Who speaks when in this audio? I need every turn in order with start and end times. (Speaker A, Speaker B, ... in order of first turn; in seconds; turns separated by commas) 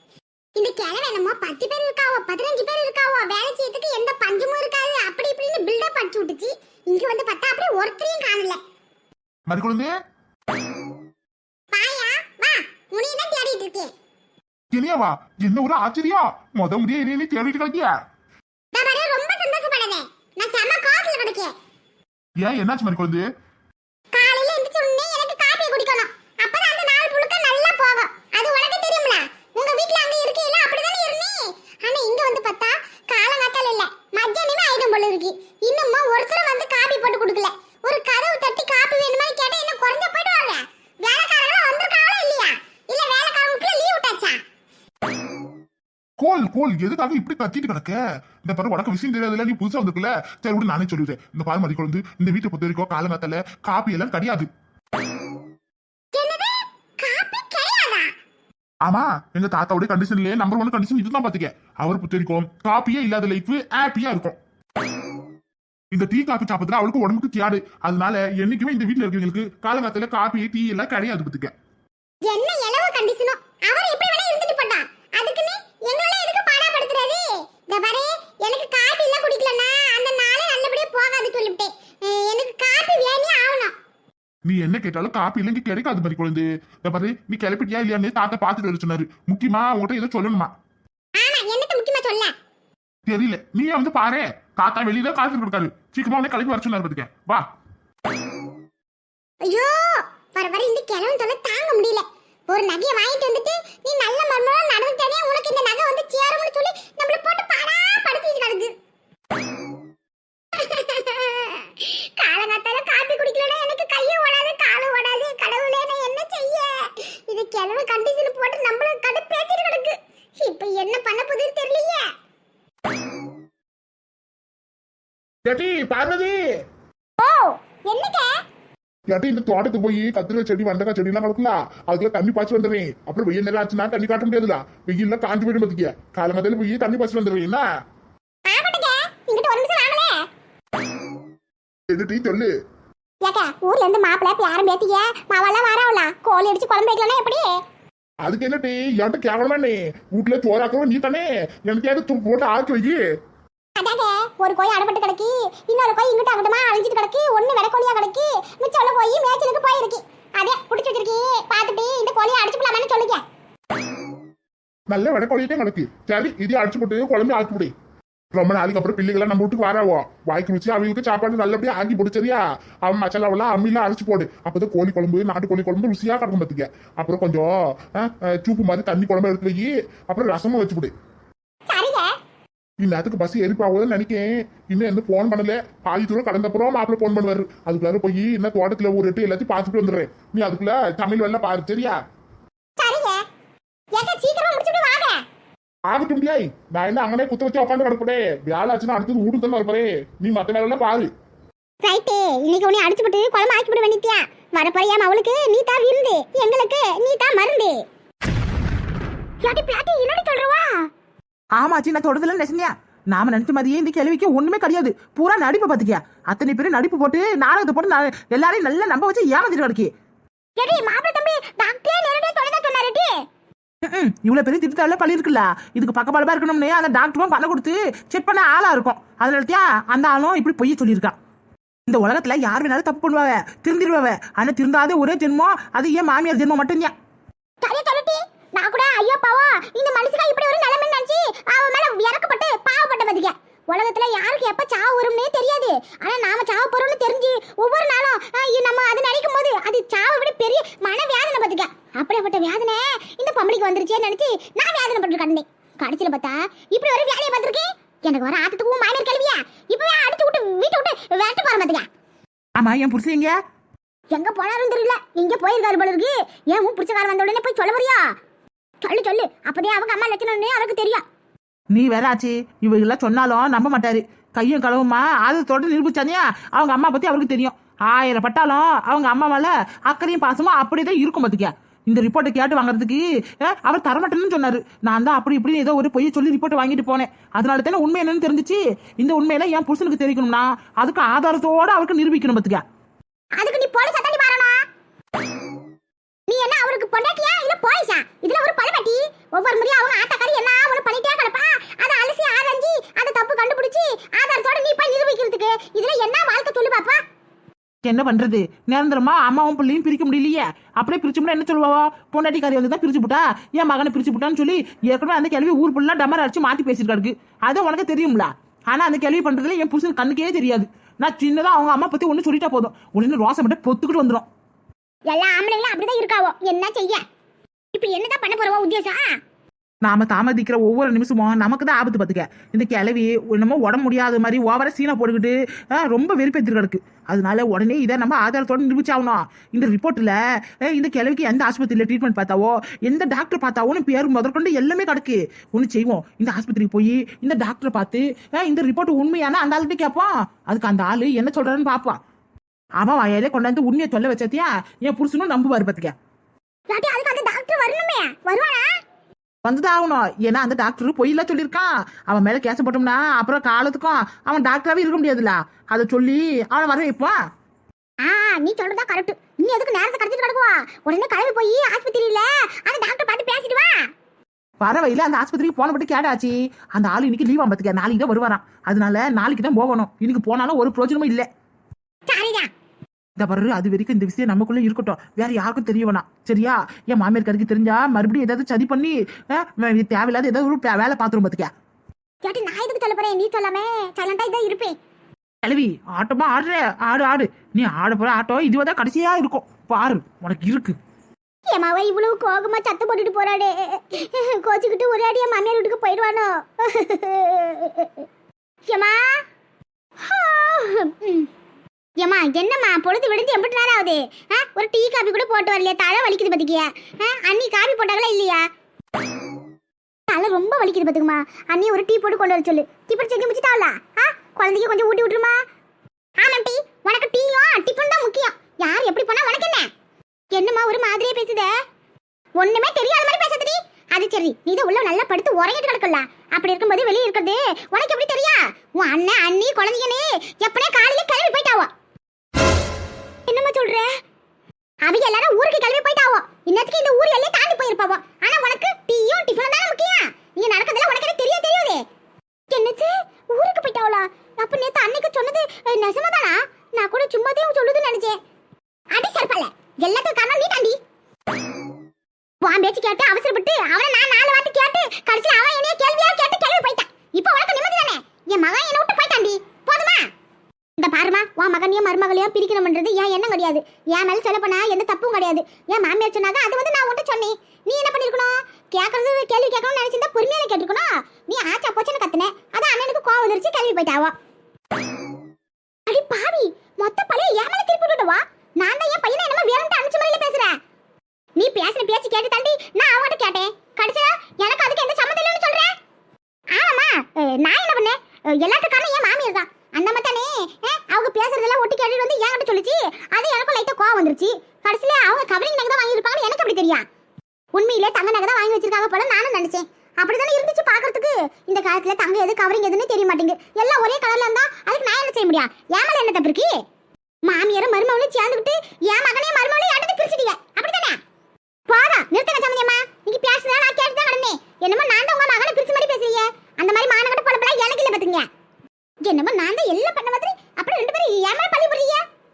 Speaker A: 0.6-8.6, Speaker B: 9.5-9.9, Speaker A: 11.7-13.9, Speaker B: 14.7-17.9, Speaker A: 18.7-21.5, Speaker B: 22.4-23.2, Speaker A: 24.1-44.4, Speaker B: 46.2-54.5, Speaker A: 56.1-58.1, Speaker B: 58.8-64.4, Speaker B: 65.9-71.5, Speaker A: 72.2-83.7, Speaker B: 84.4-90.5, Speaker A: 91.2-92.3, Speaker B: 93.0-97.4, Speaker A: 99.4-108.7, Speaker A: 110.5-122.1, Speaker B: 125.4-126.4, Speaker A: 127.2-128.3, Speaker B: 129.1-137.6, Speaker A: 138.5-140.2, Speaker B: 141.9-142.5, Speaker A: 143.2-147.5, Speaker B: 148.2-153.0, Speaker A: 153.8-163.2, Speaker B: 164.9-167.7, Speaker B: 168.3-180.9, Speaker A: 181.7-182.1, Speaker B: 182.8-192.0, Speaker A: 192.8-193.2, Speaker A: 193.9-195.2, Speaker B: 195.9-201.1, Speaker A: 201.8-207.8, Speaker A: 209.4-210.8, Speaker C: 211.6-219.9, Speaker A: 220.6-223.1, Speaker C: 223.8-231.1, Speaker C: 231.9-236.9, Speaker A: 237.6-261.9, Speaker C: 262.6-263.3, Speaker A: 264.1-268.0, Speaker A: 268.8-271.0, Speaker C: 271.7-292.6, Speaker A: 293.4-294.6, Speaker A: 296.3-307.0, Speaker C: 307.8-324.3, Speaker A: 325.1-327.0, Speaker A: 327.7-329.1, Speaker C: 329.8-352.0, Speaker C: 352.8-355.9, Speaker A: 356.7-358.7, Speaker C: 359.4-367.2, Speaker A: 368.0-373.8, Speaker C: 374.6-381.3, Speaker A: 382.1-382.5, Speaker C: 383.2-391.5, Speaker A: 392.2-394.7, Speaker C: 395.4-400.8, Speaker A: 401.5-408.1, Speaker A: 408.7-409.0, Speaker A: 410.0-411.3, Speaker A: 412.0-418.4, Speaker A: 420.1-425.4, Speaker A: 426.2-429.7, Speaker A: 430.3-431.5, Speaker A: 432.4-441.7, Speaker A: 443.3-443.9, Speaker A: 444.8-451.8, Speaker A: 452.5-458.2, Speaker A: 458.9-460.8, Speaker A: 462.4-470.0, Speaker A: 470.8-484.1, Speaker A: 485.9-490.5, Speaker A: 491.4-495.7, Speaker A: 496.5-506.8, Speaker A: 507.5-516.6, Speaker A: 517.2-521.0, Speaker A: 521.7-528.3, Speaker A: 529.0-532.0